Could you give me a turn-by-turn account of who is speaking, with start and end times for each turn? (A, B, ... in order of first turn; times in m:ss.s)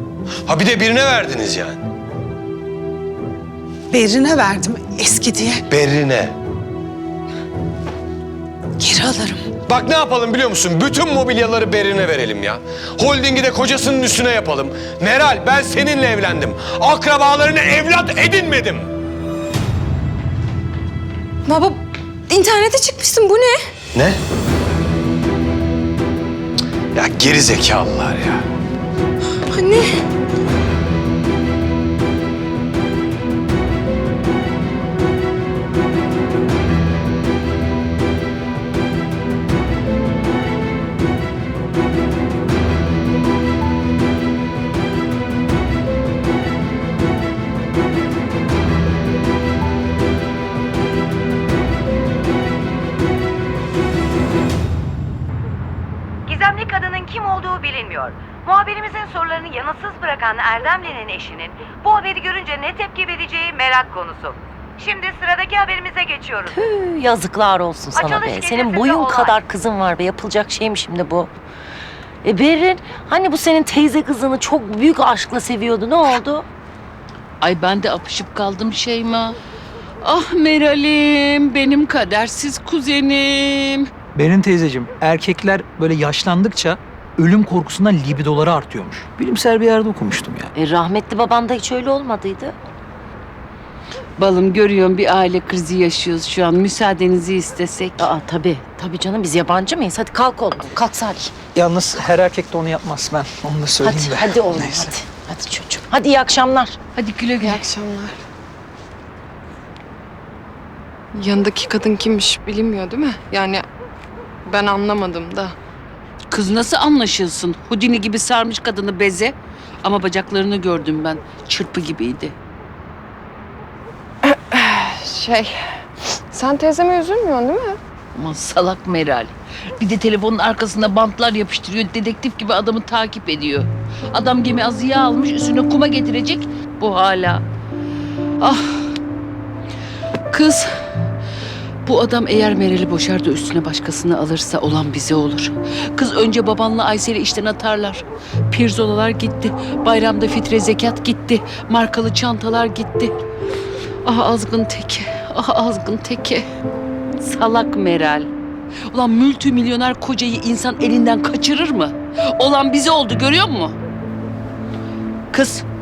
0:00.4-0:01.8 A
0:03.9-0:05.6 B
0:05.7-0:06.3 A
0:08.8-0:09.4 B
0:09.6-0:18.9 A
0:21.4-0:23.6 C
0:23.9-0:24.2 A
0:26.9-0:28.4 A
0:29.5-0:29.9 C
0:56.3-1:06.6 D
1:06.5-1:11.3 E
1:07.9-1:09.4 D
1:12.2-1:16.4 E
1:17.4-1:19.4 F
1:20.0-1:23.9 F
1:24.1-1:30.5 G
1:30.6-1:32.5 E
1:34.2-1:38.1 F
1:38.0-1:41.3 E
1:41.5-1:44.9 G
1:43.8-1:46.8 E
1:46.9-1:47.6 F
1:47.4-1:48.2 C
1:51.1-1:53.6 C
1:54.4-1:55.5 C
1:56.3-2:02.3 F
2:04.2-2:05.5 C
2:06.3-2:07.8 C
2:08.1-2:17.4 F
2:18.4-2:18.9 F
2:20.3-2:20.7 F
2:21.8-2:33.1 F
2:34.0-2:36.4 F
2:37.2-2:38.3 F
2:38.9-2:43.7 F
2:45.3-2:45.6 F